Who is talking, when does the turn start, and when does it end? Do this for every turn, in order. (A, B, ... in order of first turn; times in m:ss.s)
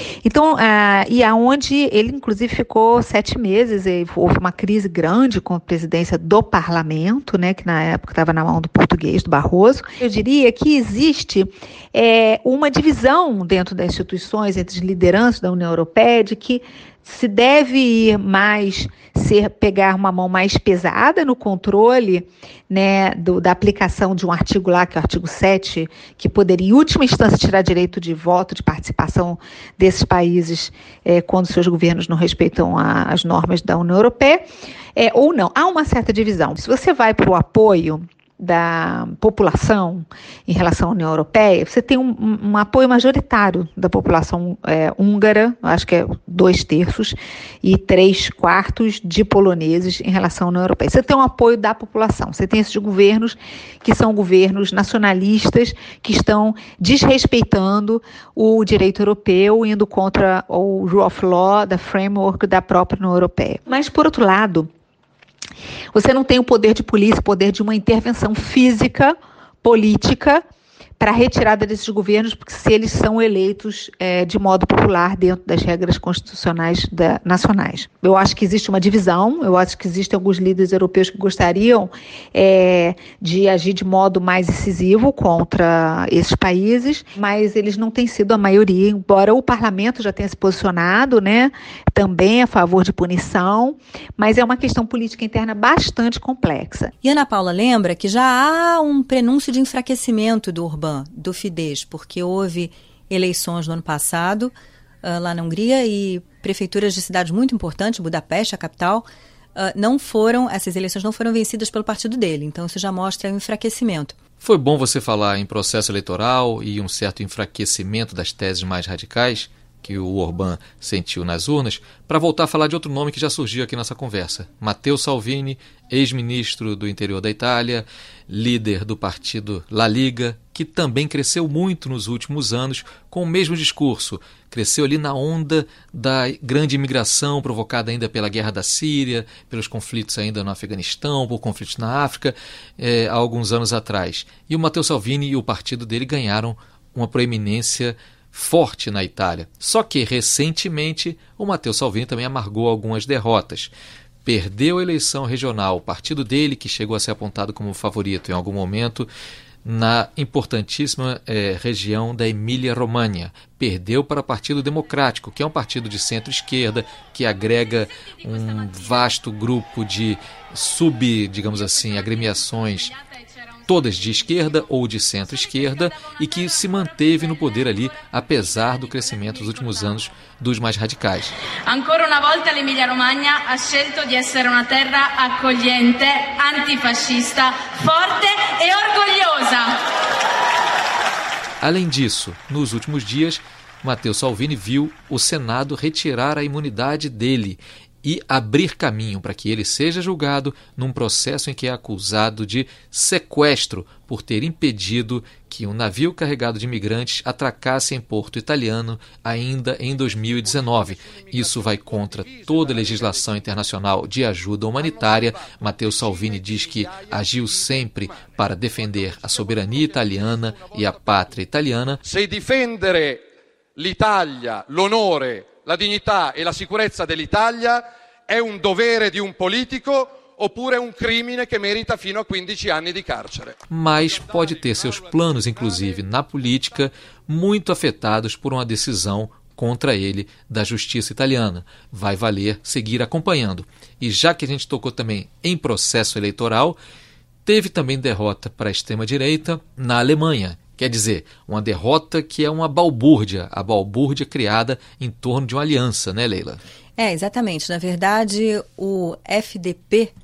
0:00.2-1:04.7 A
1:05.9-1:10.4 A
1:11.0-1:36.9 A
1:37.0-1:44.5 B
1:45.0-1:54.2 B
1:54.4-2:33.7 C
2:34.2-2:39.1 C
2:39.6-2:52.9 C
2:48.0-2:49.3 D
2:51.5-3:00.2 D
2:53.7-3:01.3 C
3:01.7-3:09.8 D
3:11.6-3:42.0 C
3:31.2-3:33.3 E
3:42.0-3:53.6 E
3:53.7-4:06.8 C
4:07.5-4:16.6 C
4:17.0-4:20.1 B